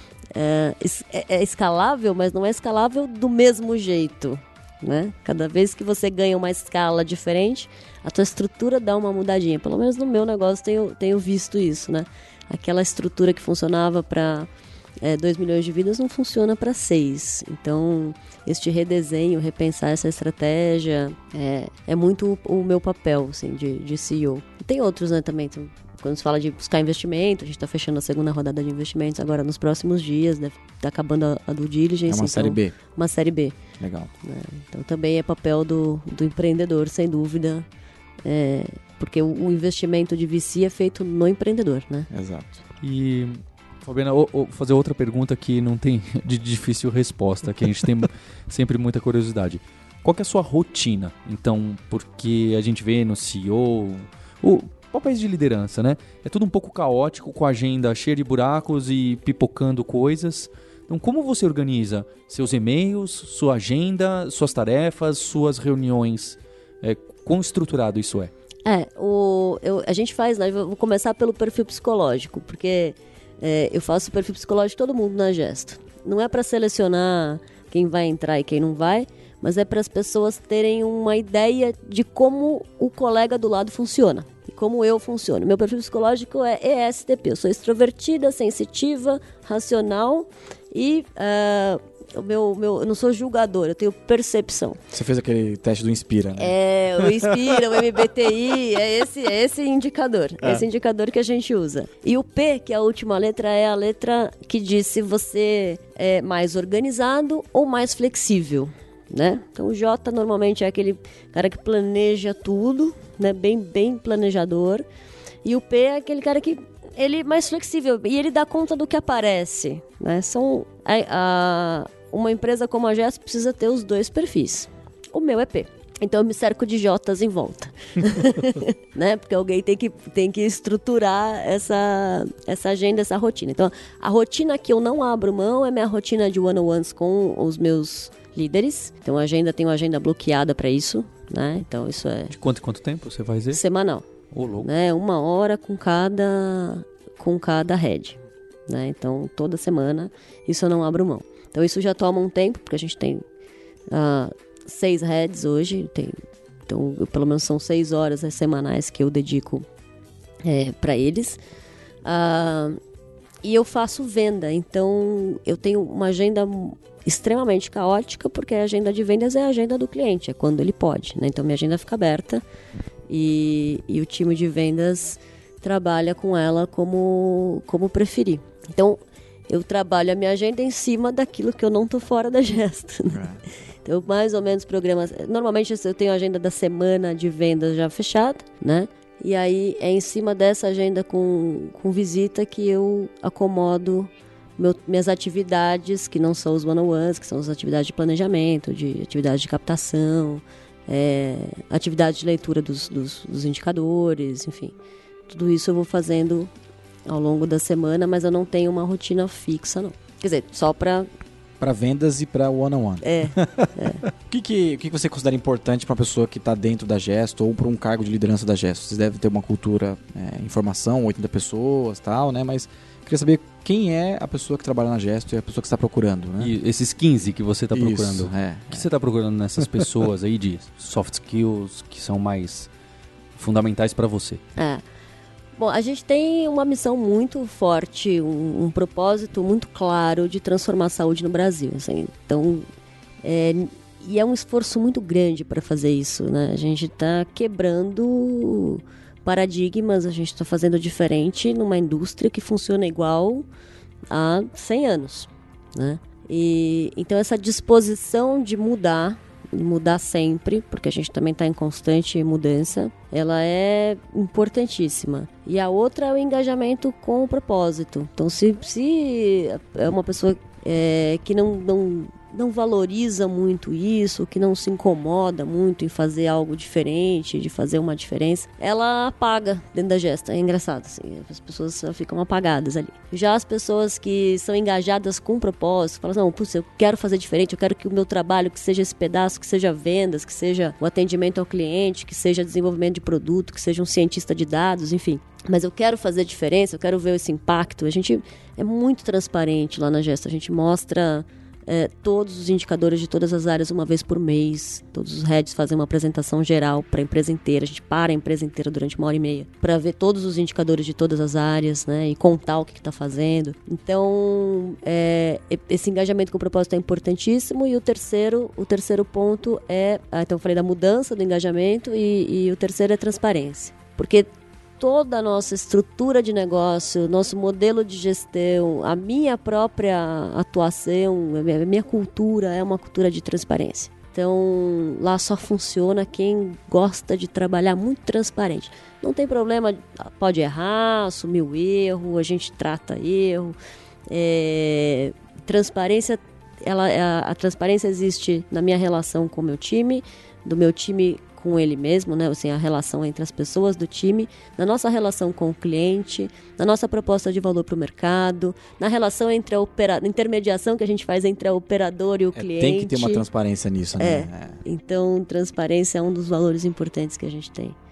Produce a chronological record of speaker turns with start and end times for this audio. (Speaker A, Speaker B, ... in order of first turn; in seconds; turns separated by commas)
Speaker A: 0.3-14.5, Speaker A: 15.0-33.6, Speaker B: 32.1-32.7, Speaker B: 33.8-34.1, Speaker A: 34.2-37.6, Speaker A: 38.2-42.1, Speaker B: 42.1-42.6, Speaker C: 42.8-68.3, Speaker A: 68.7-94.8, Speaker B: 94.9-97.2, Speaker A: 96.4-114.8, Speaker A: 115.4-142.3, Speaker C: 142.3-143.6, Speaker A: 143.5-153.2, Speaker C: 144.3-144.7, Speaker A: 153.9-156.2, Speaker A: 156.7-159.7, Speaker A: 160.4-161.4, Speaker A: 162.0-162.8, Speaker A: 163.4-172.4, Speaker A: 173.1-183.3, Speaker B: 183.1-183.4, Speaker A: 183.8-204.7, Speaker A: 205.3-206.5, Speaker A: 207.1-211.1, Speaker B: 211.6-226.5, Speaker A: 213.0-214.0, Speaker C: 226.4-232.7, Speaker B: 227.7-228.8, Speaker C: 233.3-234.4, Speaker A: 234.6-234.8, Speaker A: 235.6-242.7, Speaker A: 243.2-253.4, Speaker A: 254.1-343.6, Speaker A: 344.1-363.2, Speaker B: 362.3-364.6, Speaker A: 364.0-367.8